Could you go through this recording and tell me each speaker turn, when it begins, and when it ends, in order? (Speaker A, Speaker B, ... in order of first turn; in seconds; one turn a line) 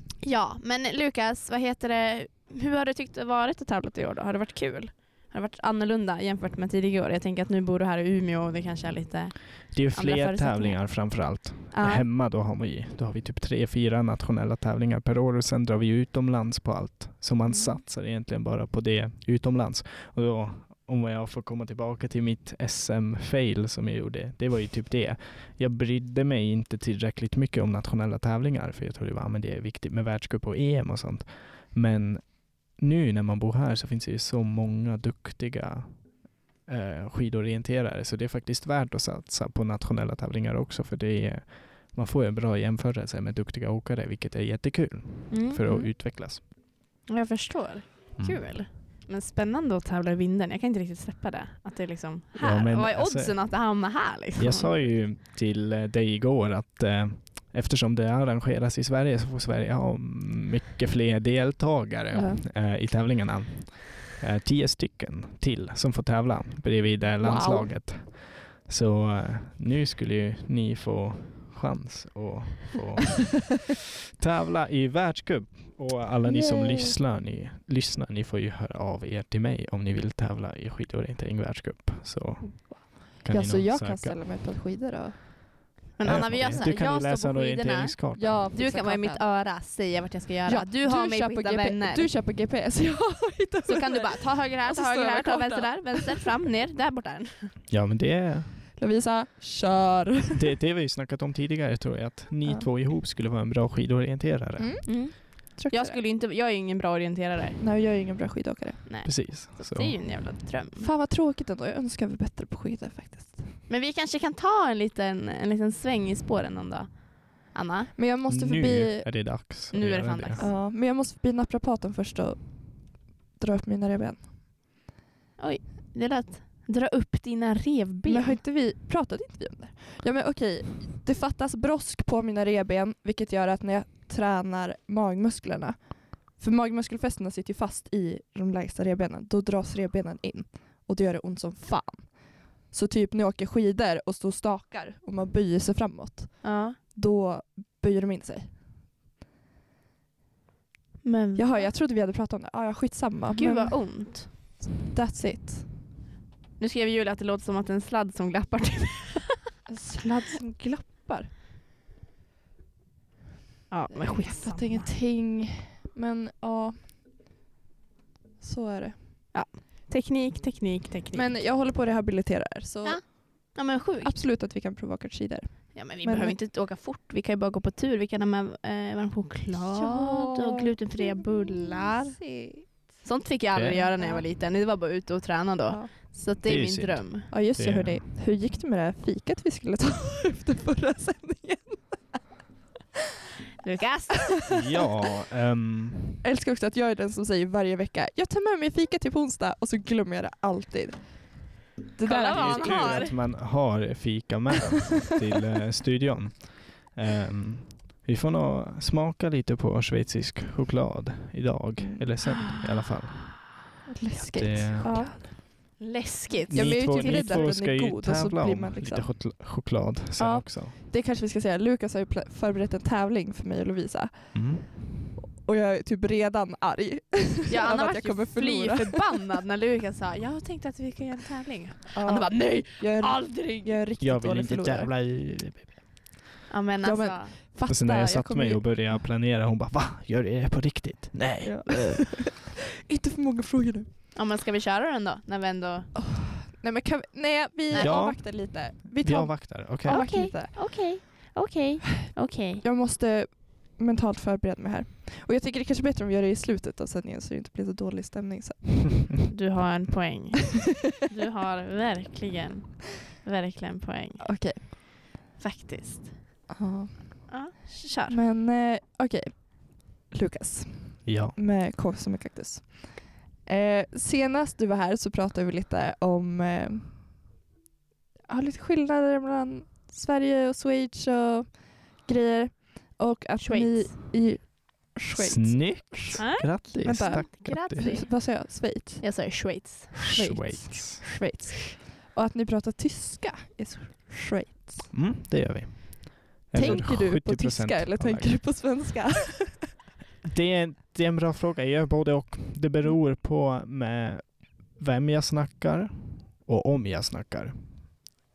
Speaker A: 0.2-12.1
Speaker B: 9.7-46.4
Speaker A: 17.5-17.8
Speaker A: 45.3-45.9
Speaker A: 47.1-54.9
Speaker B: 48.2-48.6
Speaker B: 52.4-53.5
Speaker B: 54.4-84.2
Speaker C: 62.1-62.4
Speaker C: 67.2-67.8
Speaker C: 76.2-76.9
Speaker C: 82.4-85.2
Speaker A: 86.0-92.1
Speaker B: 86.0-88.4
Speaker C: 86.1-86.7
Speaker C: 88.1-89.2
Speaker C: 90.5-96.2
Speaker A: 93.7-97.5
Speaker B: 97.7-98.5
Speaker C: 98.8-100.4
Speaker B: 100.3-104.9
Speaker C: 104.6-106.0
Speaker A: 104.8-107.6
Speaker C: 107.6-108.8
Speaker A: 108.8-110.9
Speaker B: 109.0-110.0
Speaker C: 110.8-113.6
Speaker A: 113.7-117.9
Speaker C: 118.0-119.3
Speaker B: 118.3-120.5
Speaker A: 119.7-120.5
Speaker C: 120.4-124.3
Speaker A: 125.4-128.4
Speaker C: 128.0-148.6
Speaker A: 146.4-146.8
Speaker A: 151.0-151.7
Speaker C: 151.3-154.4
Speaker A: 153.3-154.3
Speaker C: 154.9-155.7
Speaker A: 156.6-159.4
Speaker C: 159.7-161.3
Speaker A: 163.7-164.9
Speaker C: 163.9-166.8
Speaker C: 168.4-169.3
Speaker A: 169.3-171.4
Speaker C: 171.1-176.4
Speaker A: 172.8-174.2
Speaker A: 175.7-182.2
Speaker C: 179.7-182.9
Speaker A: 183.0-187.3
Speaker B: 183.5-183.8
Speaker C: 183.7-184.2
Speaker B: 186.4-188.0
Speaker C: 187.3-192.2
Speaker A: 193.6-194.5
Speaker B: 194.5-196.2
Speaker C: 196.2-203.1
Speaker A: 202.0-203.1
Speaker B: 202.3-215.2
Speaker C: 211.8-212.1
Speaker C: 213.9-215.8
Speaker A: 214.8-217.5
Speaker B: 216.5-220.7
Speaker C: 216.5-219.6
Speaker C: 220.2-229.0
Speaker B: 224.3-224.7
Speaker A: 227.5-233.8
Speaker C: 231.9-234.9
Speaker B: 234.0-235.9
Speaker A: 236.5-237.4
Speaker C: 236.8-239.0
Speaker B: 237.7-242.1
Speaker C: 241.4-243.9
Speaker A: 244.1-245.9
Speaker C: 245.9-251.3
Speaker A: 247.7-248.0
Speaker B: 247.8-250.2
Speaker A: 249.8-252.6
Speaker C: 252.6-259.1
Speaker A: 259.3-266.4
Speaker C: 264.2-264.6
Speaker C: 266.5-267.5
Speaker A: 267.3-268.2
Speaker C: 268.1-277.1
Speaker B: 271.0-271.4
Speaker C: 278.3-294.9
Speaker A: 283.4-283.9
Speaker B: 285.1-287.9
Speaker A: 286.2-288.4
Speaker A: 289.0-290.2
Speaker B: 290.0-291.1
Speaker B: 294.9-298.6
Speaker C: 296.5-299.6
Speaker B: 300.2-308.2